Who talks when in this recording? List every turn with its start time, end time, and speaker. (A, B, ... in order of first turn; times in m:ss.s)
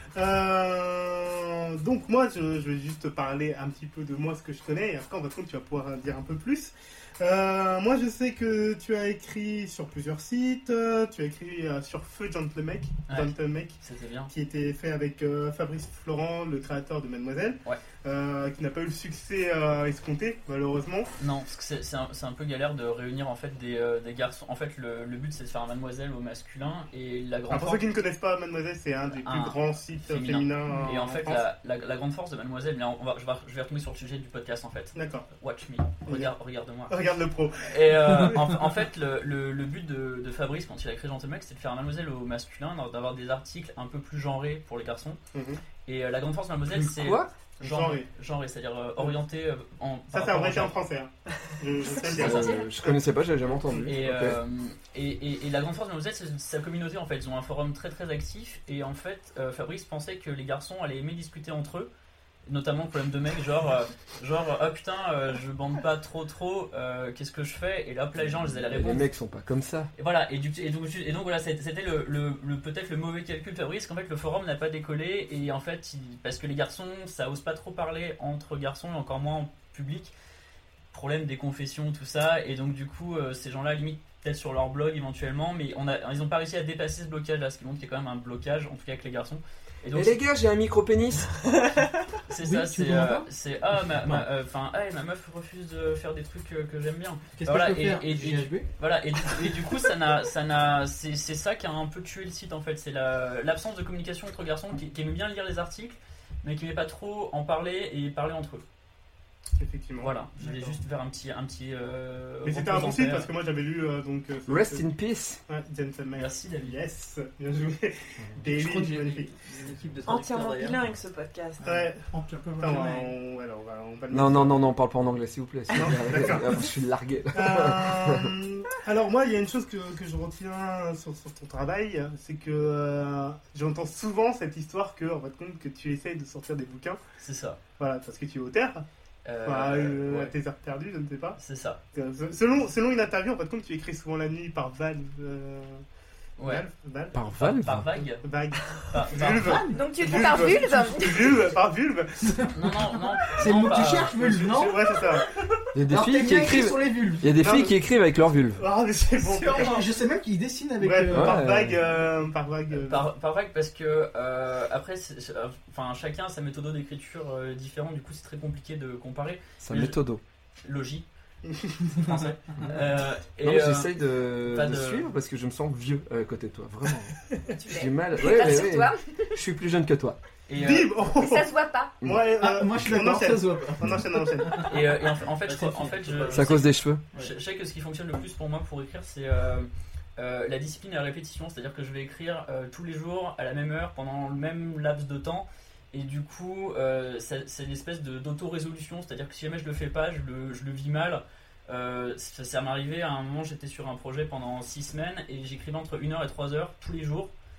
0:00.1-0:13.8 A
0:13.1-0:14.3 B
0:14.3-0:21.1 A
0:21.2-0:27.8 B
0:27.5-0:31.4 A
0:29.1-0:37.0 B
0:34.9-0:35.2 A
0:36.9-0:38.4 A
0:37.7-0:45.2 B
0:45.3-0:45.6 A
0:45.8-0:50.7 B
0:46.7-0:47.3 C
0:47.6-0:48.1 A
0:50.1-0:53.0 A
0:52.0-0:52.6 D
0:52.1-0:54.4 C
0:53.8-1:01.9 B
1:02.4-1:09.1 B
1:08.7-1:09.9 C
1:10.0-1:20.1 B
1:20.9-1:30.2 B
1:29.9-1:31.3 C
1:32.3-1:48.6 B
1:32.4-1:33.3 E
1:37.4-1:38.7 E
1:49.6-1:50.1 A
1:50.0-1:53.3 B
1:50.4-1:50.8 E
1:52.4-1:54.8 A
1:54.5-1:55.4 C
1:55.5-1:59.3 A
1:56.1-1:56.8 B
1:58.4-2:00.8 E
2:00.0-2:01.6 F
2:01.6-2:03.1 E
2:01.6-2:02.0 A
2:02.6-2:04.7 A
2:04.1-2:08.3 C
2:05.7-2:06.6 A
2:07.3-2:17.0 A
2:17.2-2:17.6 B
2:17.8-2:18.8 A
2:19.2-2:20.3 B
2:19.4-2:21.4 A
2:21.4-2:21.8 B
2:21.9-2:25.8 A
2:26.4-2:26.6 B
2:26.4-2:27.2 A
2:27.1-2:27.9 C
2:27.3-2:28.2 B
2:28.2-2:32.5 A
2:28.8-2:29.6 B
2:29.4-2:29.8 E
2:29.7-2:31.5 D
2:32.2-2:35.0 E
2:32.5-2:34.1 B
2:34.1-2:35.3 A
2:35.7-2:38.6 C
2:35.9-2:37.4 E
2:37.4-2:37.7 A
2:38.6-2:39.8 A
2:39.3-2:39.8 F
2:39.4-2:41.5 E
2:40.8-2:43.0 A
2:41.1-2:41.8 C
2:42.7-2:50.0 B
2:49.6-2:50.2 C
2:50.6-2:51.0 B
2:51.5-2:51.7 A
2:51.9-2:52.3 E
2:51.9-2:55.1 B
2:53.4-2:57.2 C
2:57.5-2:59.4 D
2:57.7-3:00.2 C
3:00.5-3:00.9 B
3:00.5-3:01.5 A
3:01.1-3:02.0 D
3:02.0-3:04.7 A
3:02.4-3:04.8 E
3:04.6-3:27.3 B
3:05.4-3:06.5 E
3:06.3-3:07.0 C